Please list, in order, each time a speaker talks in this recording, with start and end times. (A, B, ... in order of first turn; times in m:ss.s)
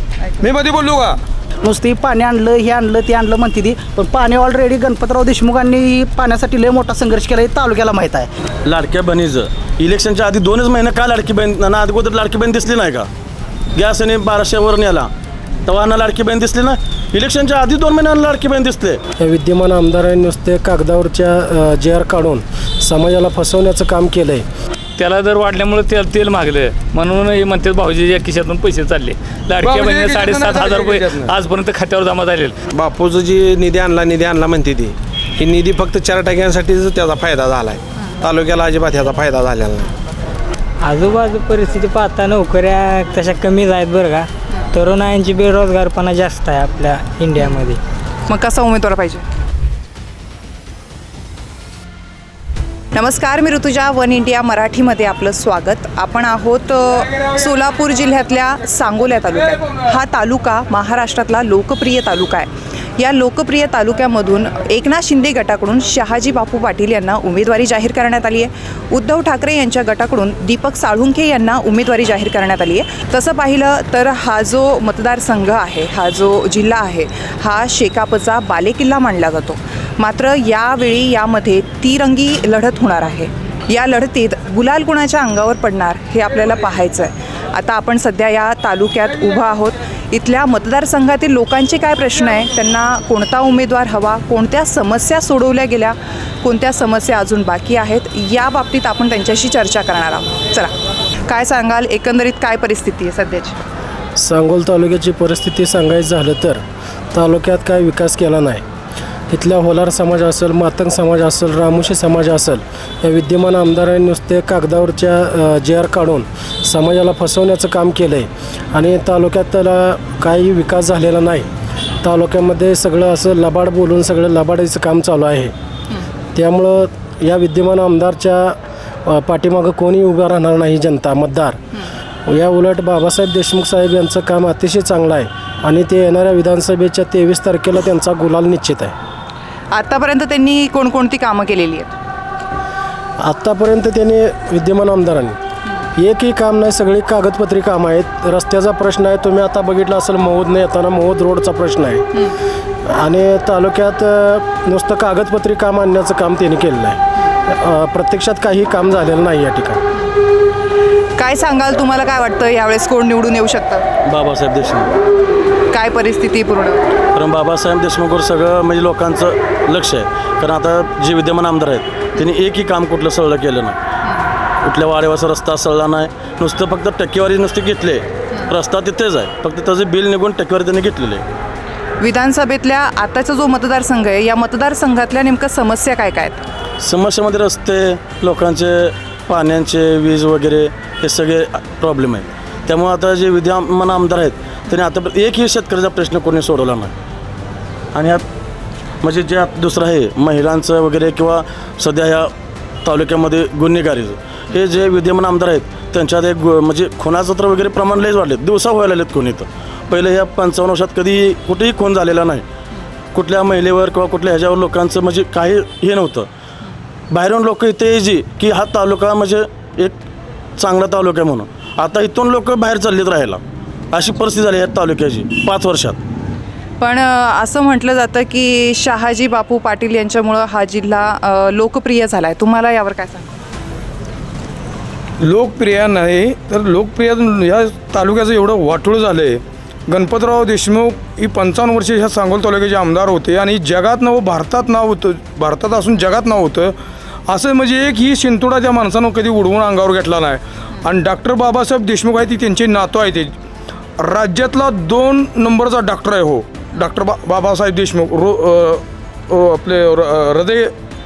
0:00.4-0:01.2 A
0:01.6-0:08.3 B
0:08.6-0:13.1 C
0:13.7-0:15.1 C
0:15.7-0:19.0 C
0:19.2-0:24.4 D
0:25.0-0:32.6 E
0:29.6-0:31.3 A
0:32.7-0:39.9 F
0:40.8-0:47.8 G
0:48.3-0:49.2 H
0:52.9-1:40.7 H
1:41.3-1:43.6 H
1:44.2-1:46.6 D
1:47.1-1:48.6 D
1:49.3-2:01.5 D
2:02.0-2:05.5 D
2:06.3-2:11.6 D
2:12.3-2:18.9 D
2:19.7-2:22.0 H
2:23.2-2:25.4 D
2:26.0-2:32.0 D
2:32.9-2:39.8 D
2:41.2-2:43.9 H
2:44.1-2:45.0 C
2:45.7-2:47.0 H
2:47.2-2:53.8 C
2:54.6-3:01.2 C
3:02.0-3:06.4 H
3:06.8-3:16.9 C
3:17.9-3:18.2 C
3:19.0-3:22.3 C
3:22.8-3:32.4 C
3:33.1-3:36.3 C
3:37.1-3:40.0 C
3:40.6-3:43.4 C
3:43.9-3:46.0 C
3:46.8-3:53.3 H
3:55.2-4:06.8 A
4:07.3-4:13.3 A
4:14.0-4:20.7 A